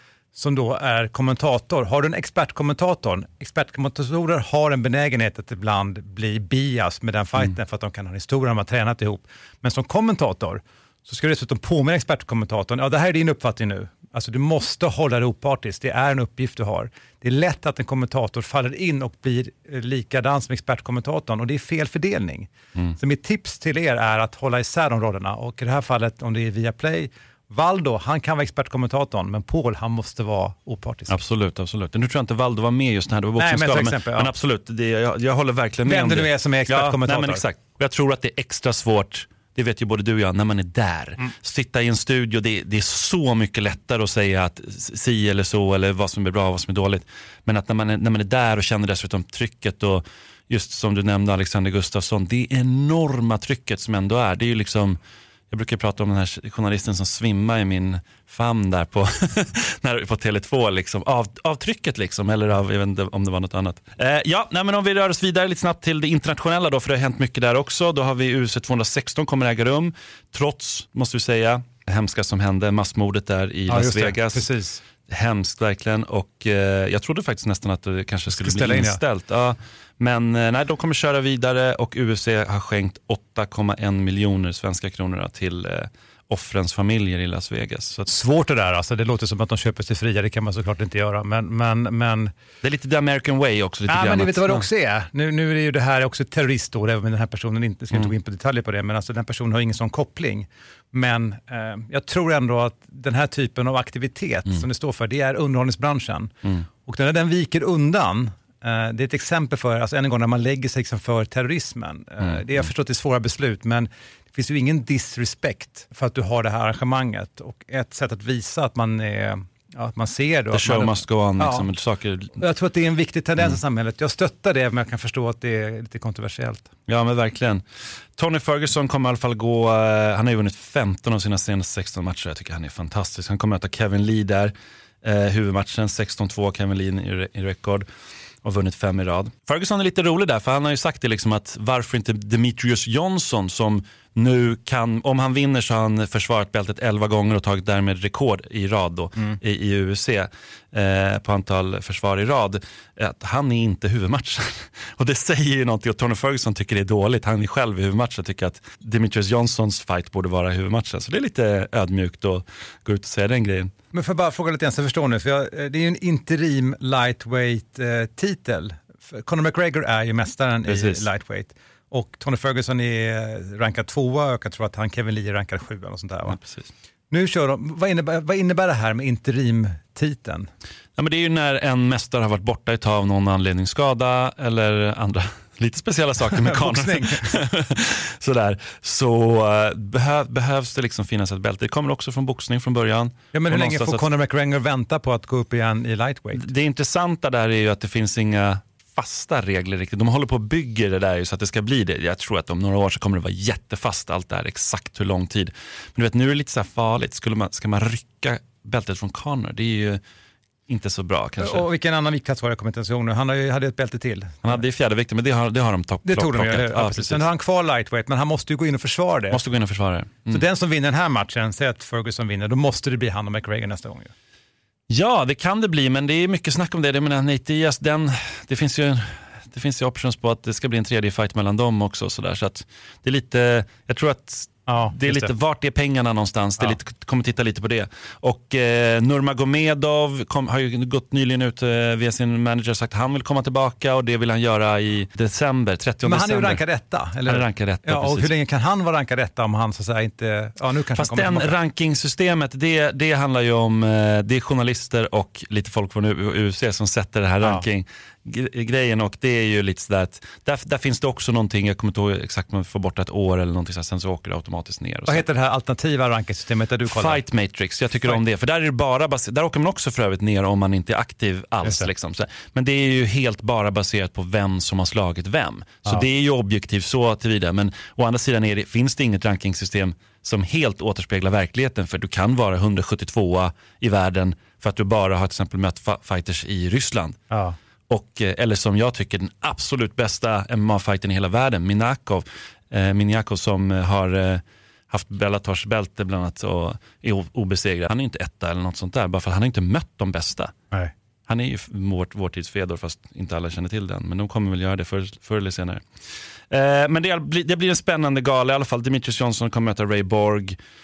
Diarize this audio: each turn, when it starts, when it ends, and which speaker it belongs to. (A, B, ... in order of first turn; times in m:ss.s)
0:00.4-0:31.2 A
0:31.1-0:55.0 B
0:33.4-0:34.3 A
0:35.9-0:37.4 A
0:55.5-1:14.5 B
1:13.7-1:14.8 A
1:15.1-1:28.1 B
1:18.3-1:19.0 A
1:28.1-1:32.3 A
1:32.6-1:34.6 B
1:33.9-1:46.3 A
1:46.8-2:01.7 A
1:52.2-1:52.7 B
2:00.5-2:02.4 B
2:02.4-2:06.7 A
2:06.9-2:07.6 B
2:08.2-2:17.9 B
2:18.4-2:43.7 B
2:43.9-2:56.4 A
2:50.7-2:51.1 B
2:56.3-2:56.7 B
2:57.1-3:00.5 A
3:01.0-3:14.0 B
3:06.5-3:07.3 A
3:13.3-3:16.4 A
3:16.4-3:30.0 B
3:30.7-3:31.7 B
3:31.4-3:34.6 A
3:34.4-3:37.3 B
3:36.0-3:39.4 A
3:39.3-3:40.4 B
3:40.3-3:44.1 A
3:44.9-4:06.6 B
3:54.7-3:55.3 A
4:06.0-4:11.6 A
4:07.3-4:08.3 B
4:11.0-4:25.2 B
4:25.1-4:27.2 A
4:26.8-4:47.2 B
4:31.6-4:31.9 A
4:47.3-4:47.6 A
4:47.9-5:00.5 B
5:01.3-5:05.8 B
5:06.5-5:10.6 B